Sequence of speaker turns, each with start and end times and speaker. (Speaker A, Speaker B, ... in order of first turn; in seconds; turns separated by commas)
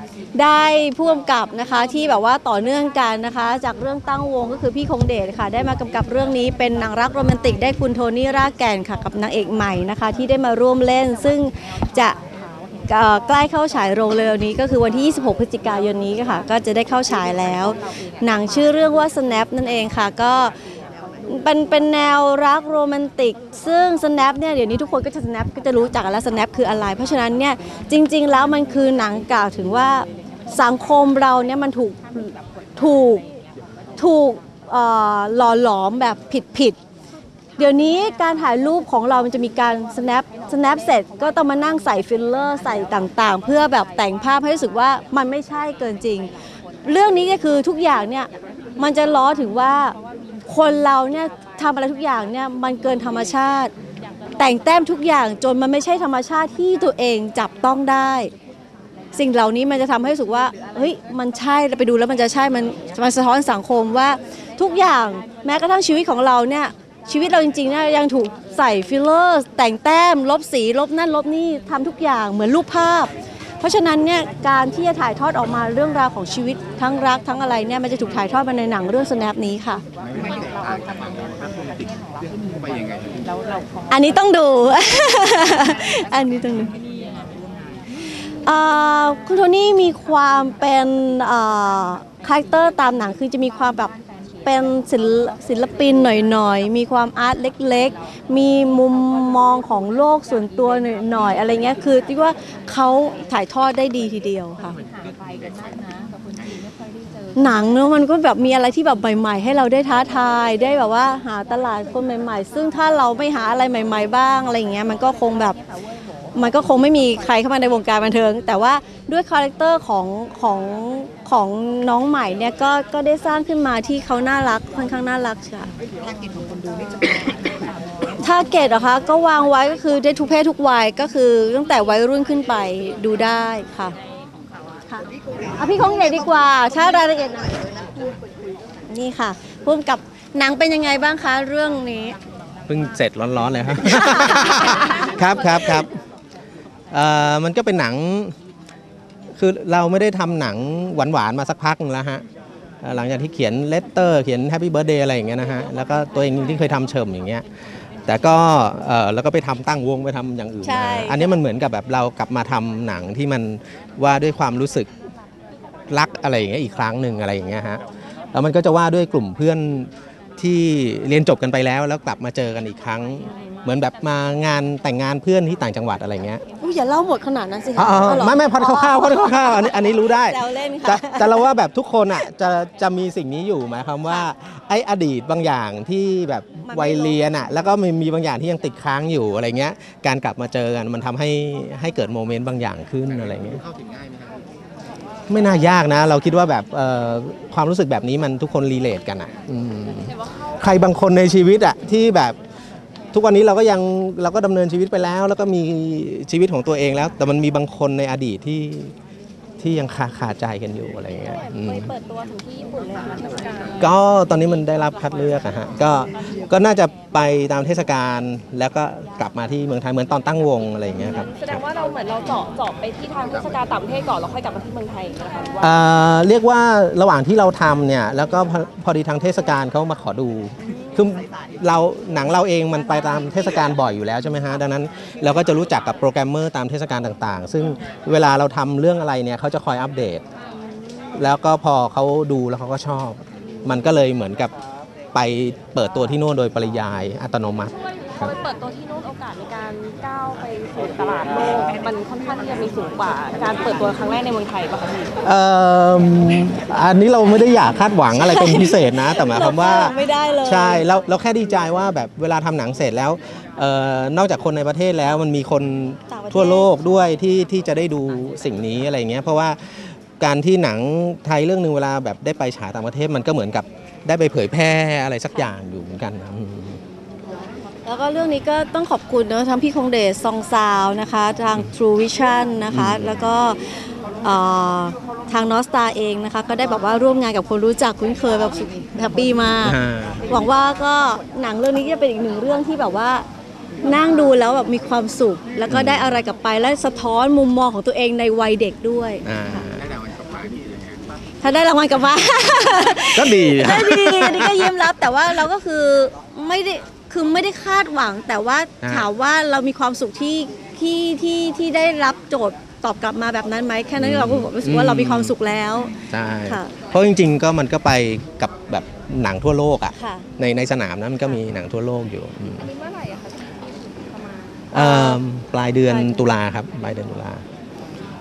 Speaker A: 0.3-12.2, Speaker A: 12.9-20.5, Speaker A: 21.3-33.2, Speaker A: 34.0-36.8, Speaker A: 37.6-46.3, Speaker A: 46.8-49.9, Speaker A: 50.5-53.7, Speaker A: 54.4-58.3, Speaker A: 59.1-79.8, Speaker A: 83.9-86.7, Speaker A: 88.4-93.9, Speaker A: 94.4-104.8, Speaker A: 107.3-115.6, Speaker A: 116.3-125.7, Speaker A: 128.2-133.9, Speaker A: 134.9-137.7, Speaker A: 138.9-142.2, Speaker B: 142.7-145.9, Speaker A: 144.1-145.0, Speaker B: 146.9-148.3, Speaker B: 149.3-152.2, Speaker B: 152.8-157.4, Speaker B: 158.1-164.9, Speaker A: 160.6-161.3, Speaker B: 165.9-167.8, Speaker B: 168.3-176.4, Speaker A: 176.6-181.5, Speaker B: 177.8-193.6, Speaker A: 186.6-187.2, Speaker B: 195.3-202.4, Speaker B: 203.1-208.9, Speaker B: 209.6-211.9, Speaker C: 211.4-213.8, Speaker B: 213.8-221.6, Speaker C: 221.2-225.6, Speaker B: 225.6-240.2, Speaker B: 241.1-244.5, Speaker B: 245.1-248.3, Speaker C: 248.2-255.1, Speaker B: 255.2-276.8, Speaker A: 258.2-260.8, Speaker A: 266.1-266.7, Speaker A: 277.8-293.2, Speaker B: 282.7-283.2, Speaker B: 289.6-290.2, Speaker A: 293.8-299.7, Speaker B: 295.7-296.2, Speaker B: 299.2-299.9, Speaker A: 301.4-316.7, Speaker B: 303.1-304.8, Speaker B: 314.0-315.3, Speaker B: 316.1-322.7, Speaker A: 319.9-320.2, Speaker C: 322.7-323.4, Speaker B: 324.7-327.4, Speaker A: 324.7-325.2, Speaker A: 325.9-326.3